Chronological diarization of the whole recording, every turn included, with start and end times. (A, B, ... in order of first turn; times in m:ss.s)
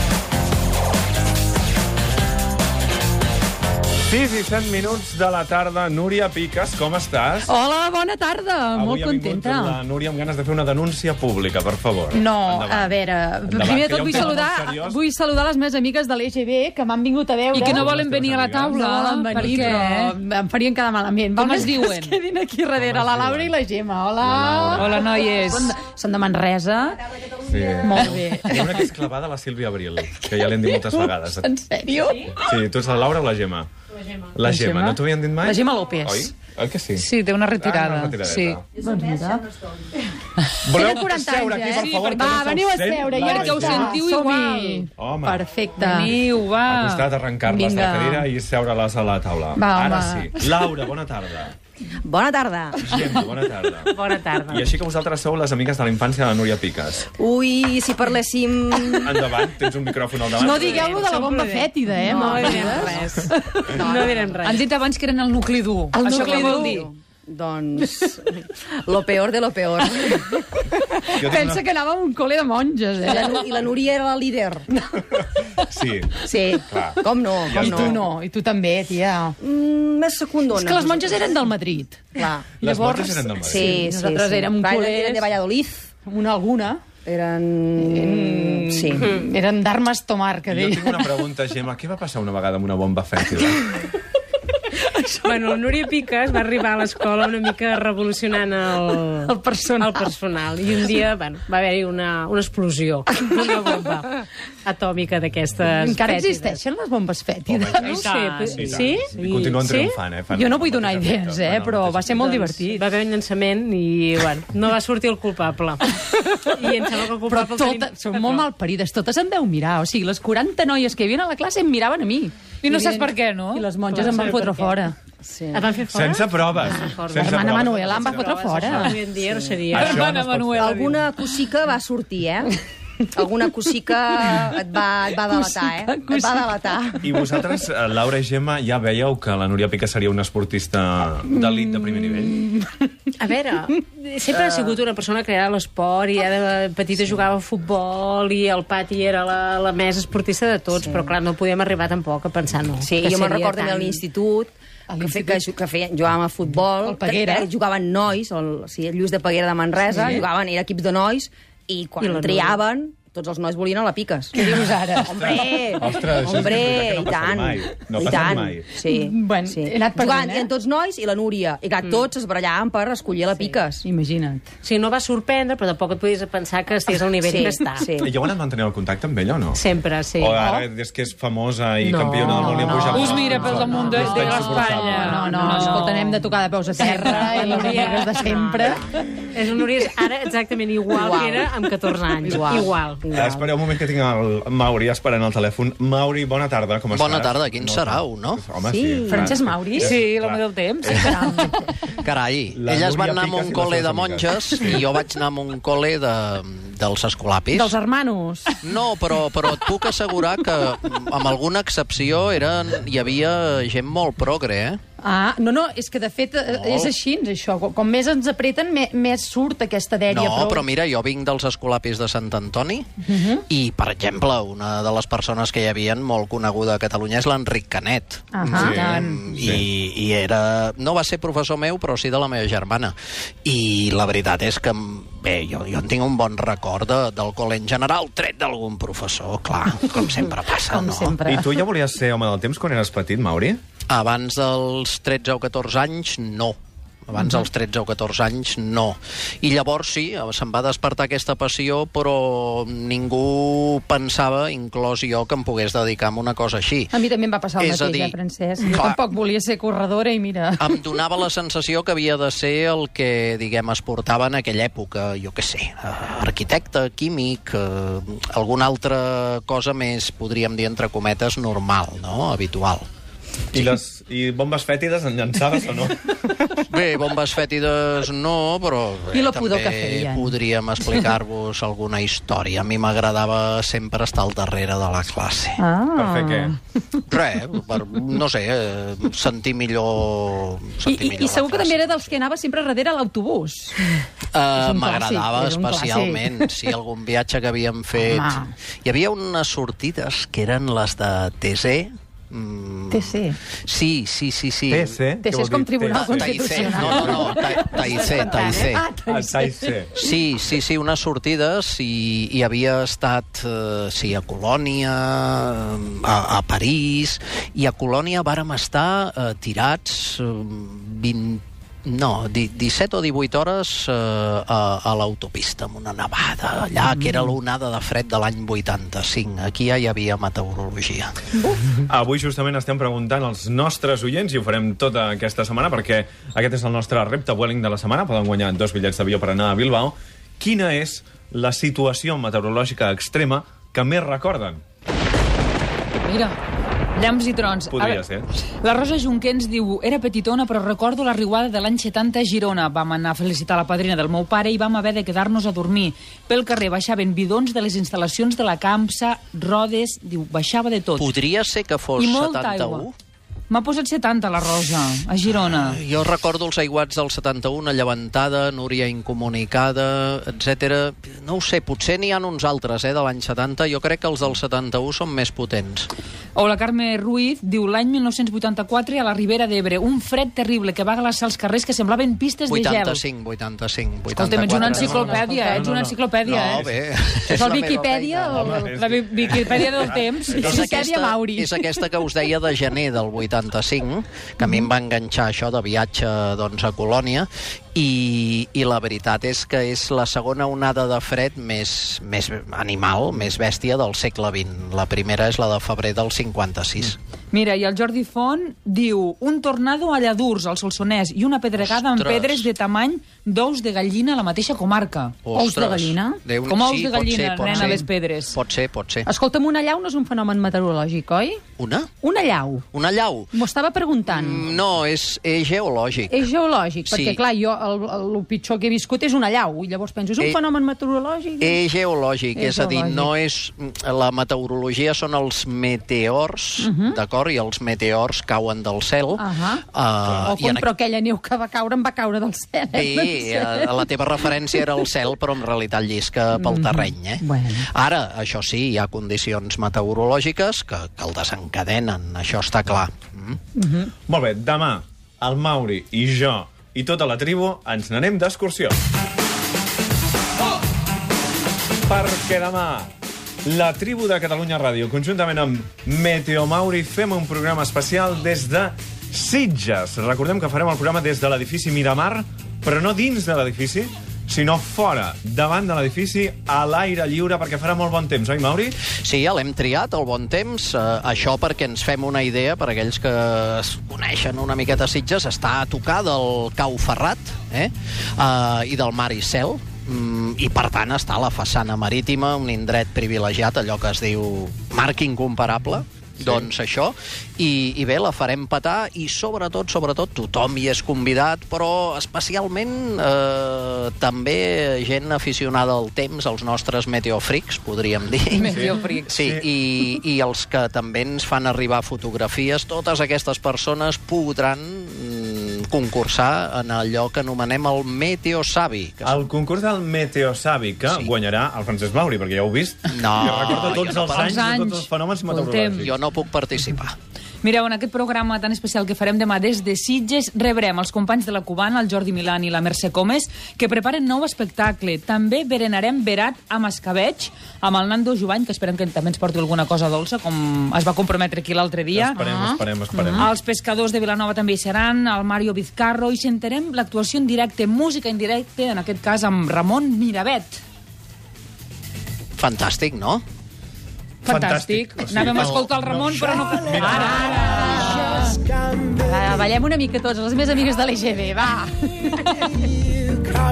0:04.1-0:07.5 A
0:07.4-0:09.8 B
0:08.7-0:15.0 A
0:12.1-0:17.9 B
0:17.5-0:20.2 C
0:17.6-0:18.8 A
0:18.7-0:27.0 B
0:19.3-0:19.8 A
0:21.4-0:22.2 C
0:22.8-0:23.6 A
0:24.2-0:25.0 A
0:24.7-0:25.8 C
0:27.5-0:31.5 A
0:27.8-0:28.9 B
0:30.3-0:32.4 B
0:32.4-0:33.7 A
0:34.3-0:37.1 A
0:34.4-0:36.3 B
0:37.0-0:38.6 C
0:37.6-0:38.6 A
0:38.8-0:39.5 B
0:40.6-0:44.0 A
0:40.7-0:46.1 B
0:41.7-0:42.5 C
0:43.1-0:44.9 C
0:45.0-0:45.4 A
0:45.8-0:47.0 C
0:46.6-0:51.6 A
0:47.4-0:48.3 B
0:49.6-0:50.4 B
0:52.0-0:53.0 D
0:52.8-0:57.1 A
0:53.9-0:54.7 E
0:57.2-0:59.4 D
0:58.9-1:01.1 A
1:00.3-1:03.8 B
1:00.5-1:04.6 E
1:02.0-1:04.4 D
1:04.4-1:06.9 C
1:05.9-1:06.8 B
1:06.0-1:10.4 D
1:10.6-1:13.4 B
1:11.2-1:11.6 A
1:13.0-1:14.7 D
1:15.7-1:18.0 A
1:16.2-1:18.0 D
1:17.5-1:19.4 B
1:19.4-1:21.4 D
1:20.6-1:25.3 B
1:22.1-1:22.5 D
1:22.6-1:23.7 A
1:23.4-1:25.9 D
1:26.0-1:26.8 B
1:27.0-1:29.2 D
1:27.8-1:31.1 B
1:30.5-1:33.7 A
1:34.8-1:35.5 B
1:35.2-1:46.6 E
1:39.8-1:40.1 B
1:45.8-1:48.8 B
1:47.5-1:52.3 A
1:47.8-1:50.0 E
1:47.9-1:48.6 C
1:50.3-1:52.8 B
1:52.1-1:58.5 E
1:57.3-2:05.0 B
2:02.6-2:04.2 C
2:04.0-2:04.7 E
2:05.2-2:05.7 D
2:05.5-2:10.1 E
2:05.9-2:09.0 A
2:06.8-2:09.0 B
2:09.2-2:09.7 D
2:09.7-2:10.8 A
2:09.7-2:11.0 C
2:10.6-2:12.5 D
2:13.1-2:17.0 D
2:14.2-2:14.4 B
2:15.3-2:17.2 B
2:17.0-2:22.4 A
2:21.3-2:22.8 B
2:23.2-2:34.0 E
2:30.8-2:31.1 D
2:32.8-2:44.4 D
2:34.9-2:35.5 B
2:36.8-2:37.5 B
2:42.0-2:42.6 E
2:44.3-2:46.0 B
2:45.0-2:53.8 D
2:45.1-2:48.7 A
2:48.9-2:50.5 B
2:53.8-2:54.5 B
2:54.6-2:58.0 E
2:57.2-2:58.1 D
2:58.0-3:05.3 A
2:59.5-3:00.4 E
3:00.4-3:00.7 B
3:01.8-3:04.6 E
3:02.4-3:02.9 D
3:02.5-3:04.1 B
3:02.9-3:06.1 C
3:04.7-3:08.9 B
3:05.2-3:06.2 E
3:06.8-3:13.5 E
3:10.9-3:11.5 D
3:12.2-3:12.7 D
3:13.1-3:21.5 A
3:16.9-3:18.5 F
3:19.1-3:20.0 B
3:19.8-3:21.5 C
3:20.9-3:21.5 B
3:22.0-3:27.7 F
3:22.5-3:24.8 A
3:27.5-3:28.6 B
3:28.6-3:34.8 F
3:35.0-3:40.7 B
3:36.5-3:36.9 F
3:40.1-3:42.9 F
3:43.0-3:43.4 B
3:43.4-4:01.2 F
3:48.3-3:49.2 B
3:48.5-3:49.6 A
4:00.7-4:01.6 B
4:01.2-4:03.6 A
4:03.9-4:17.0 F
4:16.9-4:20.8 B
4:17.6-4:18.2 F
4:18.7-4:19.0 F
4:20.6-4:32.8 F
4:33.5-4:36.6 A
4:36.7-4:45.6 F
4:39.1-4:40.4 B
4:45.6-4:46.6 B
4:46.0-4:46.6 A
4:47.1-4:52.1 F
4:50.8-4:54.0 B
4:54.3-5:05.0 F
4:54.6-4:56.5 B
4:58.0-4:58.5 B
5:02.9-5:03.4 B
5:04.7-5:07.5 A
5:05.2-5:09.7 B
5:05.9-5:08.8 F
5:07.7-5:08.6 E
5:09.1-5:10.0 A
5:09.9-5:31.2 F
5:31.8-5:44.6 A
5:46.0-5:46.4 C
5:46.9-5:48.1 C
5:47.7-5:48.3 A
5:48.6-6:01.1 C
6:01.0-6:02.9 F
6:02.0-6:02.9 C
6:03.5-6:05.8 C
6:05.3-6:15.9 F
6:16.4-6:23.0 C
6:22.5-6:25.0 F
6:24.1-6:26.7 C
6:24.4-6:25.8 B
6:24.8-6:26.8 A
6:26.2-6:28.6 F
6:27.3-6:28.8 B
6:28.3-6:30.4 A
6:28.7-6:30.6 C
6:30.3-6:31.7 B
6:30.4-6:47.0 F
6:47.3-6:55.1 C
6:51.6-6:52.5 F
6:55.2-6:59.1 F
6:55.3-6:56.2 B
6:56.4-6:58.4 C
6:57.5-6:57.8 B
6:59.1-7:01.4 B
7:01.6-7:01.9 F
7:02.0-7:02.6 B
7:02.7-7:03.3 F
7:03.3-7:04.5 B
7:04.1-7:06.3 F
7:06.1-7:11.6 B
7:06.9-7:07.2 F
7:11.4-7:20.6 F
7:12.3-7:13.1 B
7:16.6-7:17.0 B
7:19.2-7:19.6 B
7:20.2-7:23.9 B
7:22.7-7:33.4 F
7:24.5-7:24.9 B
7:26.4-7:27.7 B
7:33.6-7:33.9 B
7:34.1-7:38.8 A
7:41.9-7:42.9 A
7:43.4-7:58.8 A
7:58.8-8:39.2 F
8:16.2-8:16.5 A
8:28.3-8:29.1 C
8:28.6-8:29.4 A
8:39.0-8:45.9 A
8:42.9-8:44.4 F
8:44.0-8:45.9 C
8:45.8-8:47.0 F
8:47.4-9:02.2 C
9:01.9-9:03.3 A
9:02.2-9:03.3 B
9:03.2-9:10.6 C
9:12.4-9:13.2 F
9:14.2-9:17.7 A
9:14.2-9:18.3 C
9:15.4-9:15.7 F
9:16.8-9:18.4 B
9:18.9-9:22.6 B